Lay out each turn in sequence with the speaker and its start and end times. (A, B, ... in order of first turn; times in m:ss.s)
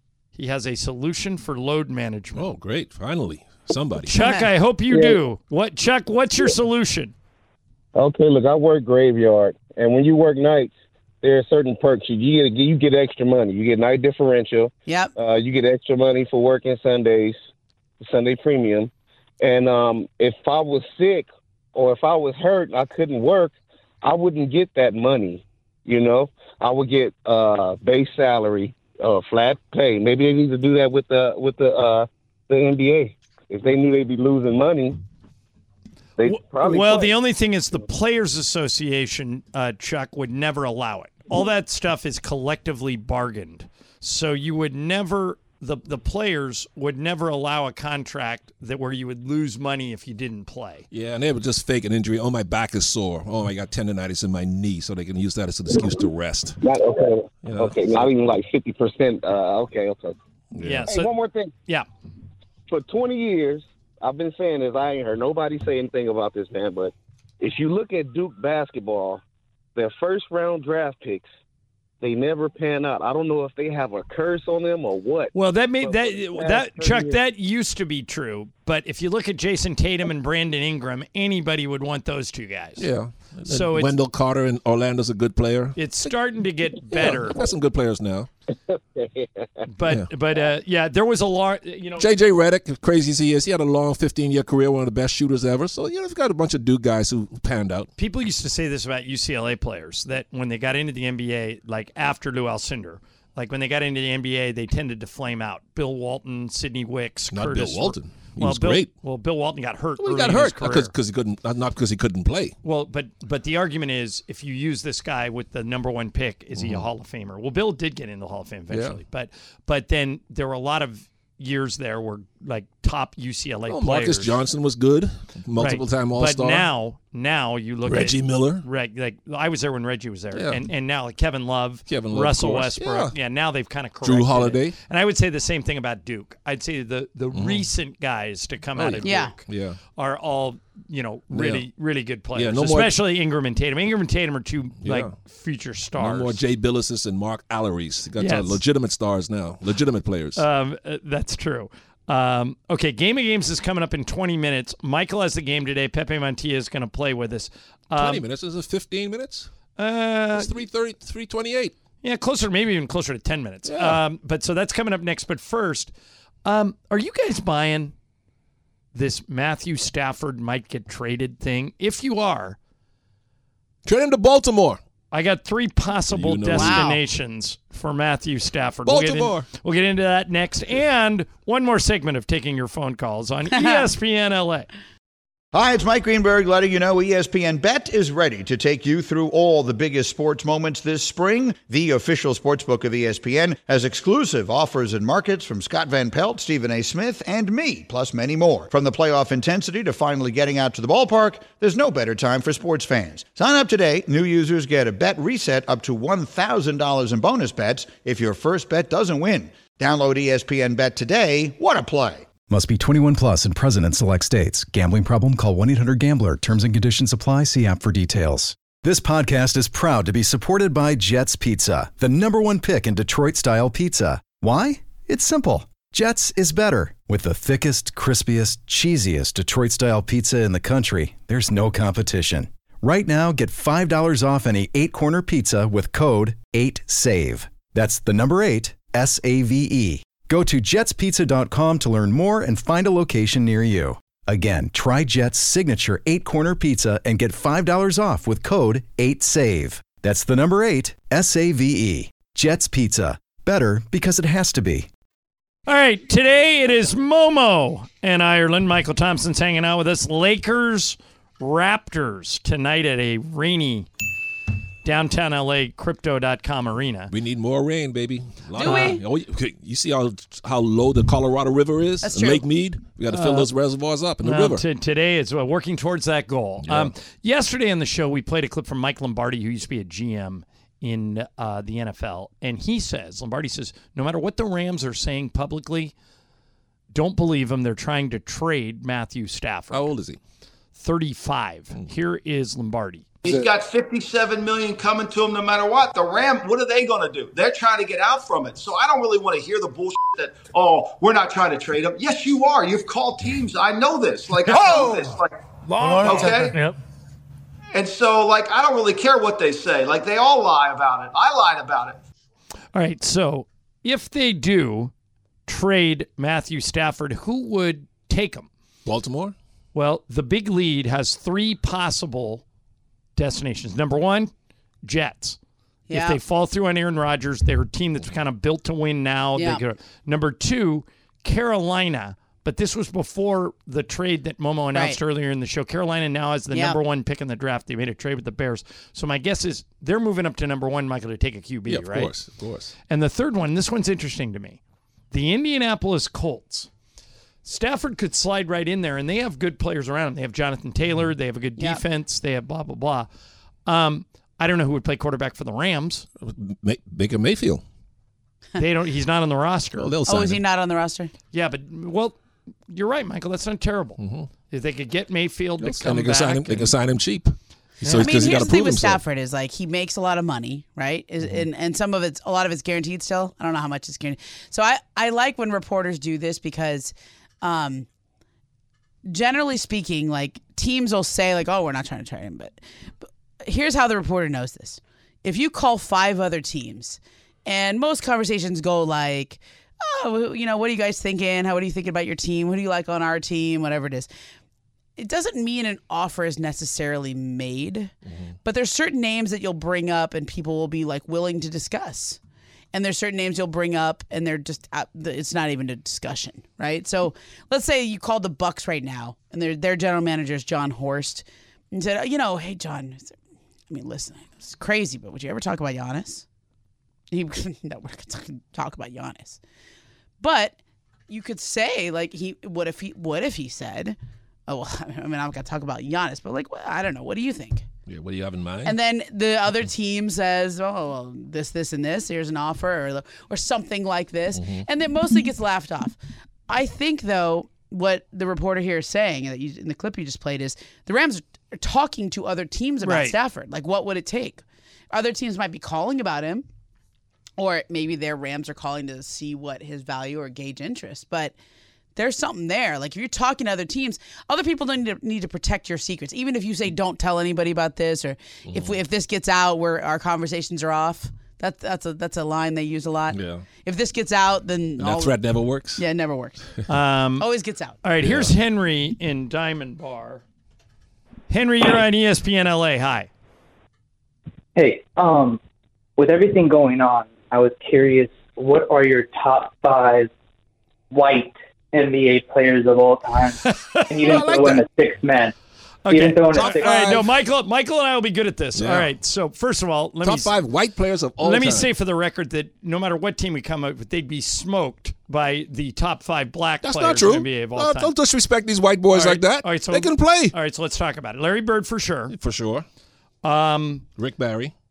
0:00.3-0:02.5 A
0:02.3-0:04.1 B
0:04.0-0:07.1 A
0:04.2-0:04.5 C
0:07.9-0:17.4 D
0:14.9-0:15.1 C
0:18.0-0:35.0 D
0:36.2-0:37.1 D
0:36.3-0:50.9 A
0:50.9-0:56.6 B
0:56.6-1:00.2 D
0:57.4-0:58.1 B
1:00.5-1:00.9 B
1:00.6-1:01.1 A
1:00.9-1:01.5 D
1:02.7-1:09.2 D
1:09.8-1:11.3 D
1:12.0-1:17.2 D
1:15.3-1:22.8 A
1:22.8-1:25.8 B
1:23.5-1:24.0 A
1:25.8-1:27.4 A
1:26.9-1:28.3 B
1:28.7-1:29.6 D
1:29.7-1:32.1 A
1:32.0-1:37.9 B
1:38.0-1:50.9 A
1:47.3-1:48.9 B
1:50.0-1:52.6 B
1:52.6-2:04.4 A
1:56.5-1:56.9 B
1:58.7-1:59.0 B
2:03.7-2:06.7 B
2:05.6-2:19.4 A
2:07.8-2:08.6 B
2:10.3-2:10.6 B
2:11.9-2:13.1 B
2:14.0-2:14.7 B
2:17.3-2:17.6 B
2:18.8-2:19.8 B
2:19.0-2:19.3 C
2:20.0-2:26.4 A
2:21.3-2:21.6 B
2:22.3-2:22.9 B
2:24.8-2:25.1 B
2:26.0-2:30.4 B
2:28.2-2:28.6 A
2:30.4-2:38.2 A
2:38.0-2:39.5 B
2:39.8-2:40.6 A
2:40.3-2:41.7 B
2:42.0-2:45.9 A
2:43.6-2:44.0 B
2:46.4-2:47.9 A
2:48.9-2:52.6 A
2:53.8-2:54.8 B
2:55.1-3:04.7 A
2:56.1-2:56.8 B
2:56.5-2:57.0 C
2:58.8-2:59.4 B
3:03.5-3:03.8 C
3:05.5-3:32.3 E
3:32.5-4:14.9 F
4:15.7-4:23.9 A
4:24.8-4:27.1 A
4:27.1-4:34.6 B
4:28.5-4:29.0 C
4:28.6-4:28.9 A
4:32.0-4:32.4 C
4:33.1-4:33.5 A
4:34.2-4:45.9 A
4:36.6-4:36.9 B
4:46.9-4:49.9 A
4:49.7-4:50.2 B
4:50.7-4:53.0 A
4:53.2-5:05.4 G
5:05.9-5:06.6 G
5:07.7-5:12.0 G
5:12.7-5:14.9 A
5:15.5-5:18.5 A
5:18.8-5:19.3 B
5:19.7-5:22.4 A
5:23.2-5:24.3 A
5:24.8-5:25.4 A
5:25.9-5:26.2 C
5:25.9-5:42.1 A
5:29.3-5:29.6 C
5:36.5-5:36.8 C
5:41.7-5:42.7 B
5:42.9-5:44.6 A
5:45.1-5:46.7 A
5:47.4-5:53.1 A
5:53.6-5:56.0 A
5:56.2-5:57.6 B
5:58.6-5:59.9 A
5:59.8-6:00.4 B
6:00.1-6:01.1 C
6:01.3-6:02.2 A
6:02.7-6:06.7 A
6:04.0-6:04.3 B
6:05.6-6:09.0 B
6:07.8-6:17.9 C
6:19.1-6:22.6 C
6:23.4-6:34.1 C
6:35.0-6:37.9 C
6:38.1-6:38.4 B
6:38.4-6:42.2 C
6:42.7-6:53.1 C
6:53.7-6:56.2 C
6:57.1-6:59.4 C
7:00.2-7:00.6 C
7:01.1-7:04.0 C
7:04.5-7:07.6 C
7:07.9-7:08.8 B
7:08.6-7:15.9 C
7:14.4-7:14.6 B
7:16.5-7:26.4 C
7:22.8-7:23.1 A
7:27.4-7:31.3 C
7:32.0-7:45.1 C
7:38.5-7:38.8 B
7:43.1-7:43.4 B
7:44.8-7:45.8 B
7:45.8-7:46.4 C
7:46.7-7:47.3 A
7:47.2-7:47.8 C
7:47.8-7:50.2 A
7:48.0-7:48.3 B
7:51.3-7:53.1 A
7:54.6-7:55.4 H
7:56.0-8:00.1 H
8:00.9-8:05.3 H
8:03.4-8:03.9 A
8:04.0-8:04.6 B
8:05.8-8:10.3 A
8:05.9-8:06.8 H
8:06.3-8:07.1 B
8:08.6-8:08.9 B
8:10.0-8:11.7 B
8:11.2-8:17.9 A
8:16.6-8:20.3 B
8:18.9-8:22.1 A
8:22.1-8:22.6 B
8:23.2-8:23.8 A
8:24.0-8:24.5 B